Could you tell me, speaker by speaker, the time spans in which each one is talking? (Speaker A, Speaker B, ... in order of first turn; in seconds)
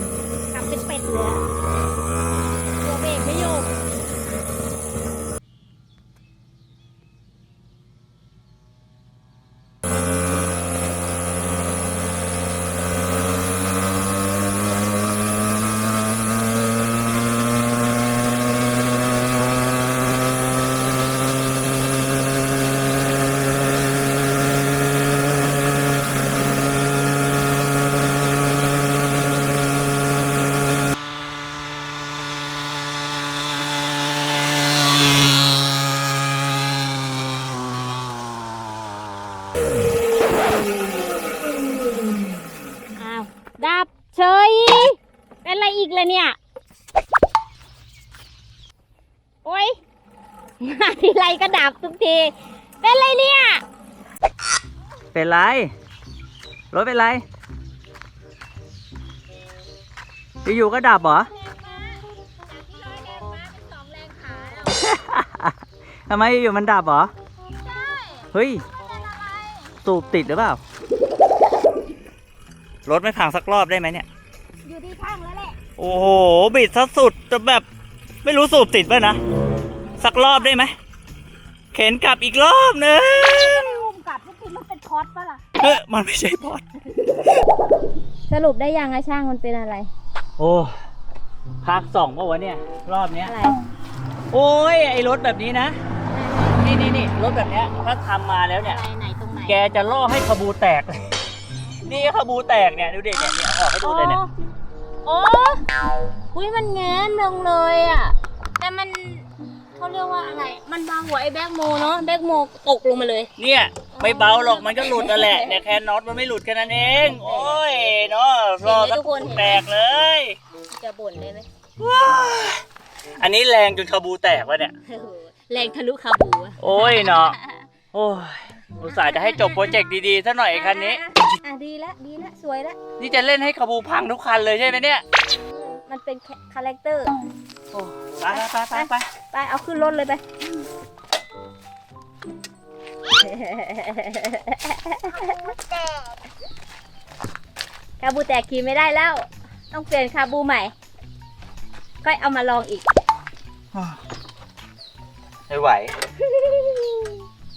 Speaker A: 0.5-1.4, 2.8-3.7, 43.0-46.4, 49.4-49.8, 50.6-53.6, 61.3-64.9, 67.6-69.7, 74.7-75.6, 80.1-80.6, 83.2-85.4, 88.3-89.9, 93.2-93.6, 96.1-96.7, 98.6-99.6, 103.2-104.3, 105.0-105.6, 106.3-109.2, 109.8-113.3, 113.9-115.6, 117.1-118.0, 118.6-119.6, 120.7-121.5, 124.8-127.6, 128.8-129.8, 130.5-132.8, 135.5-137.1, 138.3-140.2, 143.2-145.5, 148.0-150.7, 152.0-152.9, 156.3-157.1
Speaker B: 55.1-55.7, 56.7-57.2, 60.4-61.3, 64.8-65.6, 66.1-67.1, 68.3-68.6, 69.8-70.6, 72.8-74.0, 75.8-77.7, 78.2-79.2, 80.0-80.7, 81.7-83.8, 85.6-86.6, 90.4-90.7, 91.6-93.3, 94.3-95.8, 96.6-98.8, 99.5-101.1, 101.8-104.2, 113.4-120.4, 121.8-122.6, 123.2-124.8, 126.6-127.3, 127.9-131.0, 133.0-135.0, 137.7-139.1, 153.7-154.0, 155.5-155.9